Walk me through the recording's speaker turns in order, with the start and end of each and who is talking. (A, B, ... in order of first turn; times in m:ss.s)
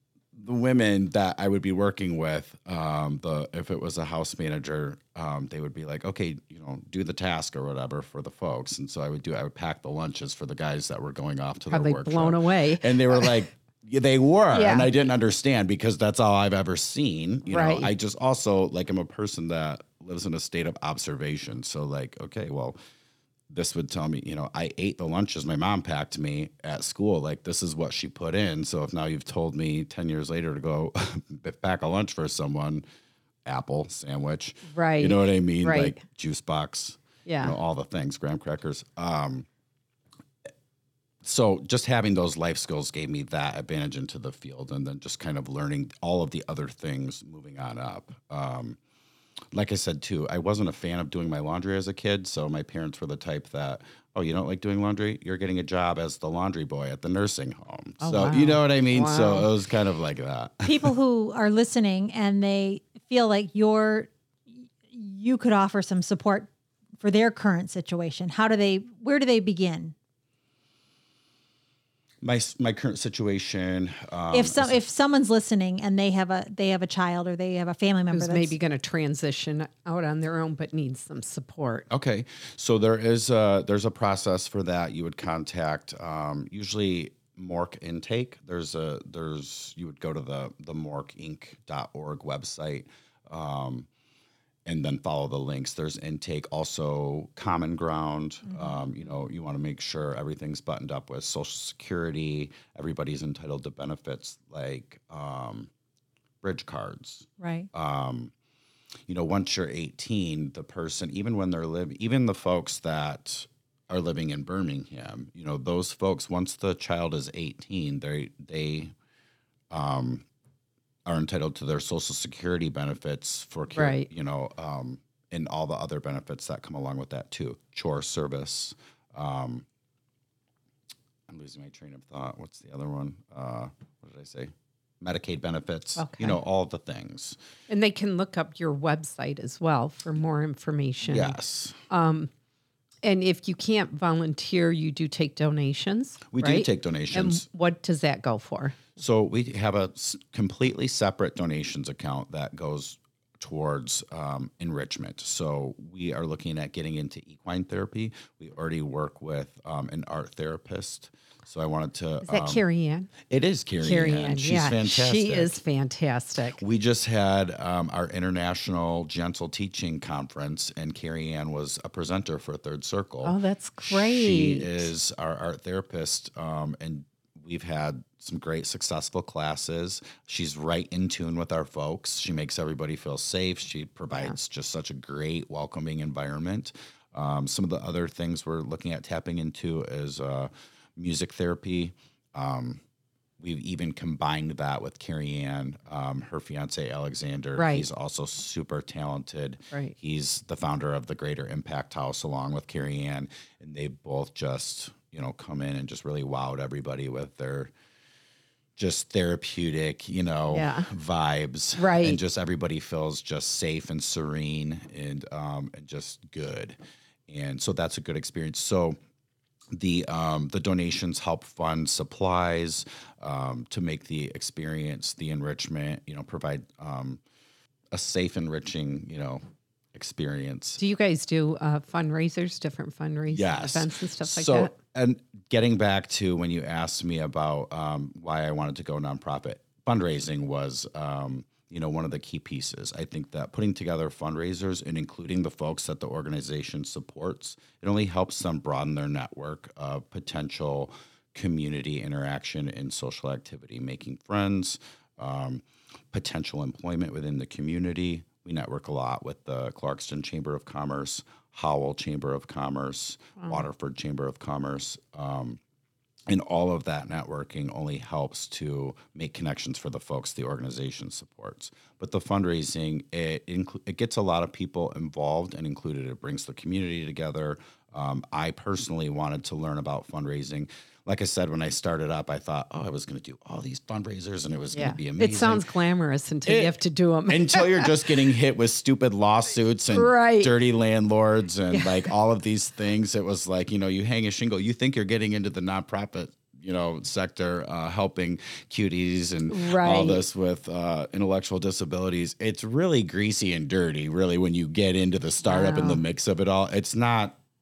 0:00.3-0:22.8 A
0:11.7-0:13.3 B
0:14.5-0:14.9 B
0:17.4-0:17.9 B
0:23.5-0:32.8 A
0:33.4-0:39.5 A
0:34.7-0:36.0 B
0:37.2-0:37.6 B
0:41.2-0:48.8 A
0:49.5-1:00.9 A
0:58.0-0:59.5 B
1:00.6-1:04.1 C
1:04.6-1:09.9 C
1:12.2-1:14.8 A
1:14.3-1:18.5 C
1:18.1-1:21.9 B
1:21.9-1:33.9 A
1:34.6-1:45.7 A
1:38.5-1:38.8 C
1:46.4-1:48.3 A
1:47.4-1:47.7 C
1:49.1-1:58.9 A
1:59.7-2:00.2 A
2:01.0-2:09.6 A
2:03.7-2:04.1 B
2:11.3-2:17.4 A
2:16.0-2:16.4 B
2:17.7-2:21.4 B
2:21.0-2:21.8 A
2:21.9-2:22.3 B
2:23.0-2:28.9 B
2:26.3-2:27.4 A
2:29.0-2:42.6 A
2:42.2-2:43.1 B
2:43.2-2:45.6 A
2:43.8-2:46.6 B
2:46.5-3:12.8 A
2:53.2-2:54.9 B
3:13.4-3:27.7 A
3:17.6-3:17.9 B
3:28.8-3:36.8 A
3:30.5-3:30.9 B
3:31.8-3:32.2 B
3:37.3-3:39.0 A
3:39.7-3:47.2 A
3:47.9-3:49.4 A
3:49.9-3:50.8 A
3:50.8-3:54.7 B
3:53.3-4:25.6 A
4:23.4-4:23.6 B
4:26.3-4:45.6 A
4:44.7-4:48.0 B
4:46.4-4:46.7 A
4:47.3-5:07.4 A
4:49.9-4:50.6 B
4:51.7-4:52.0 B
4:59.5-5:00.2 B
5:05.5-5:06.0 B